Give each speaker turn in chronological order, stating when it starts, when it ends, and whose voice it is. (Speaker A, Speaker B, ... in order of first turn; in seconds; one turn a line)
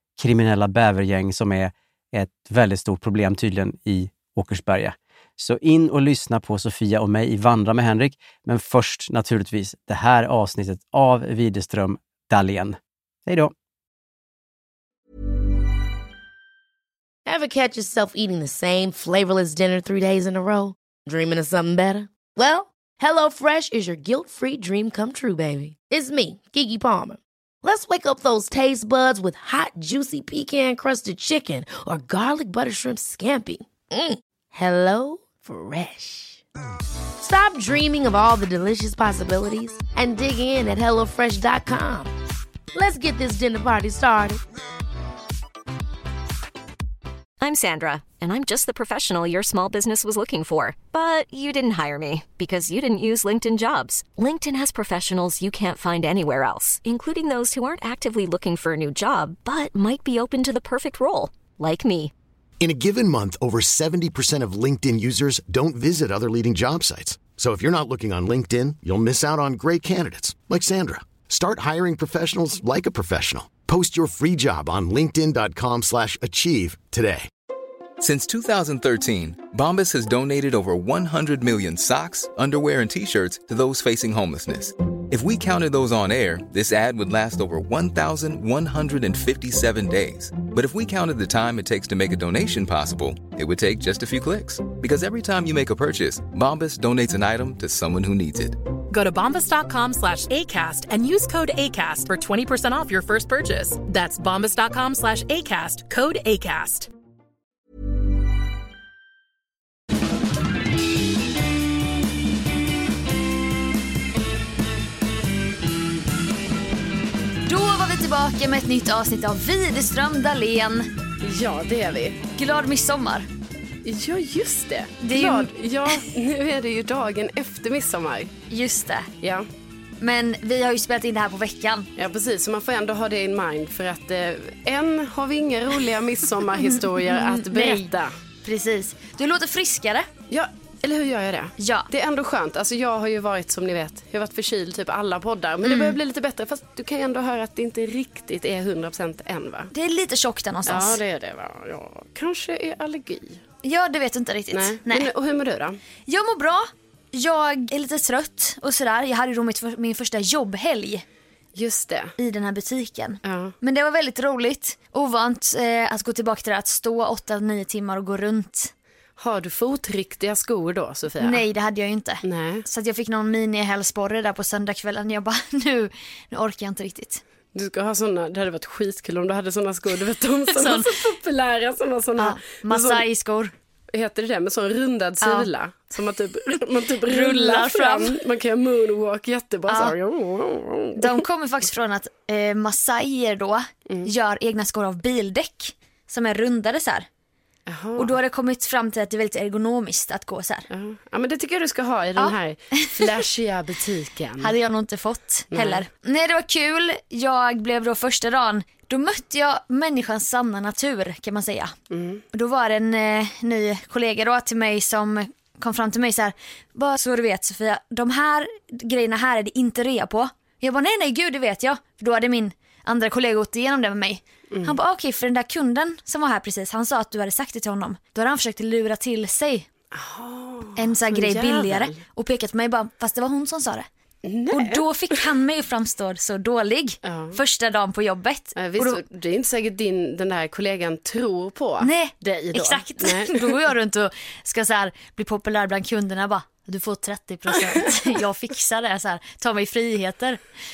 Speaker A: 0.2-13.5
Speaker B: 17.2-36.4
Speaker B: 37.2-42.1
Speaker B: 42.7-44.4
Speaker C: 47.4-62.1
Speaker D: 62.6-77.3
Speaker E: 78.0-98.6
Speaker F: 98.9-106.9
Speaker G: 117.5-120.9
Speaker H: 121.2-122.2
Speaker G: 122.3-123.3
Speaker H: 123.8-128.3
Speaker G: 125.0-126.0
Speaker G: 128.5-129.1
Speaker H: 129.2-129.5
Speaker G: 130.0-131.9
Speaker H: 132.0-138.2
Speaker G: 136.6-137.9
Speaker G: 138.4-140.1
Speaker H: 140.3-149.7
Speaker G: 141.6-141.9
Speaker G: 145.6-146.0
Speaker G: 149.7-151.0
Speaker H: 150.7-153.4
Speaker G: 153.6-155.1
Speaker H: 154.5-155.8
Speaker G: 156.1-161.0
Speaker H: 161.5-162.1
Speaker G: 162.2-168.7
Speaker H: 163.2-163.5
Speaker H: 169.2-171.4
Speaker G: 171.2-177.2
Speaker H: 172.2-172.7
Speaker H: 177.5-183.0
Speaker G: 180.5-180.9
Speaker G: 182.2-183.5
Speaker H: 183.9-191.2
Speaker G: 185.2-185.5
Speaker G: 187.1-188.2
Speaker G: 189.7-189.9
Speaker G: 191.0-197.1
Speaker H: 197.7-198.1
Speaker G: 197.9-200.7
Speaker H: 200.7-204.5
Speaker G: 202.2-203.2
Speaker G: 204.4-211.7
Speaker H: 205.5-205.8
Speaker H: 211.9-212.2
Speaker G: 212.3-229.7
Speaker H: 224.5-224.8
Speaker H: 229.9-232.0
Speaker G: 230.8-233.8
Speaker H: 234.2-234.8
Speaker G: 234.5-239.0
Speaker H: 237.0-237.4
Speaker H: 238.6-243.6
Speaker G: 241.8-250.4